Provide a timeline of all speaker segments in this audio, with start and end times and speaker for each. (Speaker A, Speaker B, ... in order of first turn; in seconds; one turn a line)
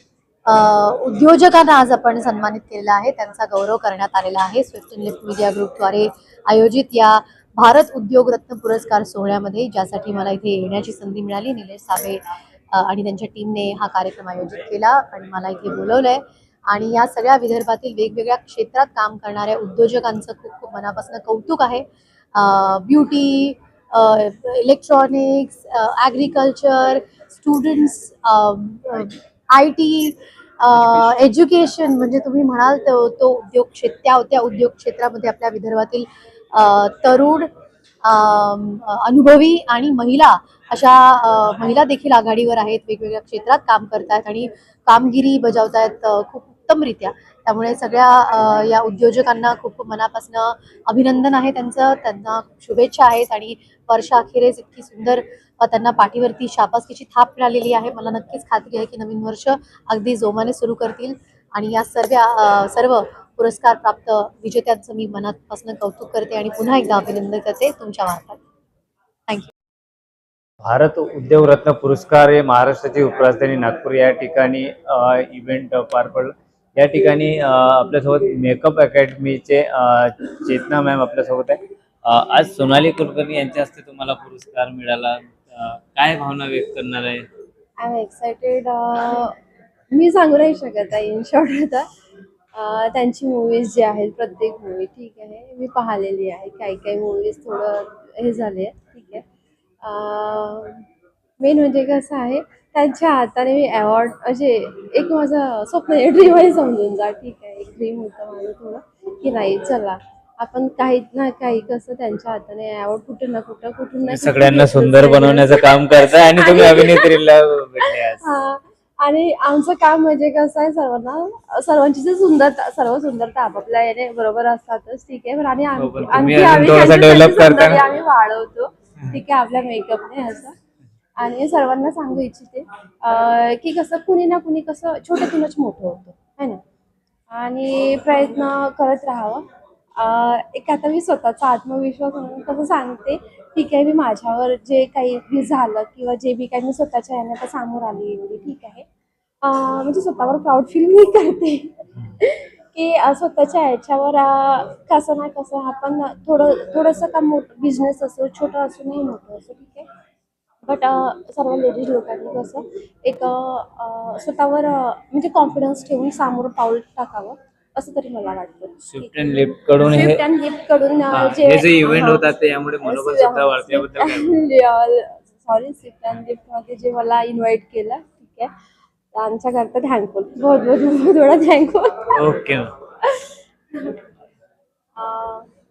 Speaker A: 0.5-12.2
Speaker A: 12.7-37.5
Speaker A: 38.0-68.4
Speaker B: 70.6-87.2
Speaker C: 87.8-89.3
Speaker C: 89.9-91.9
Speaker C: 92.5-99.2
Speaker C: 99.8-100.8
Speaker C: 101.4-117.2
Speaker B: 114.1-118.2
Speaker C: 117.8-130.5
Speaker B: 125.8-127.8
Speaker C: 131.2-136.6
Speaker C: 137.3-148.8
Speaker C: 149.4-159.9
Speaker C: 160.6-178.5
Speaker B: 168.9-170.2
Speaker B: 171.1-174.4
Speaker C: 179.1-182.2
Speaker B: 182.1-182.7
Speaker C: 183.0-184.0
Speaker C: 184.9-185.5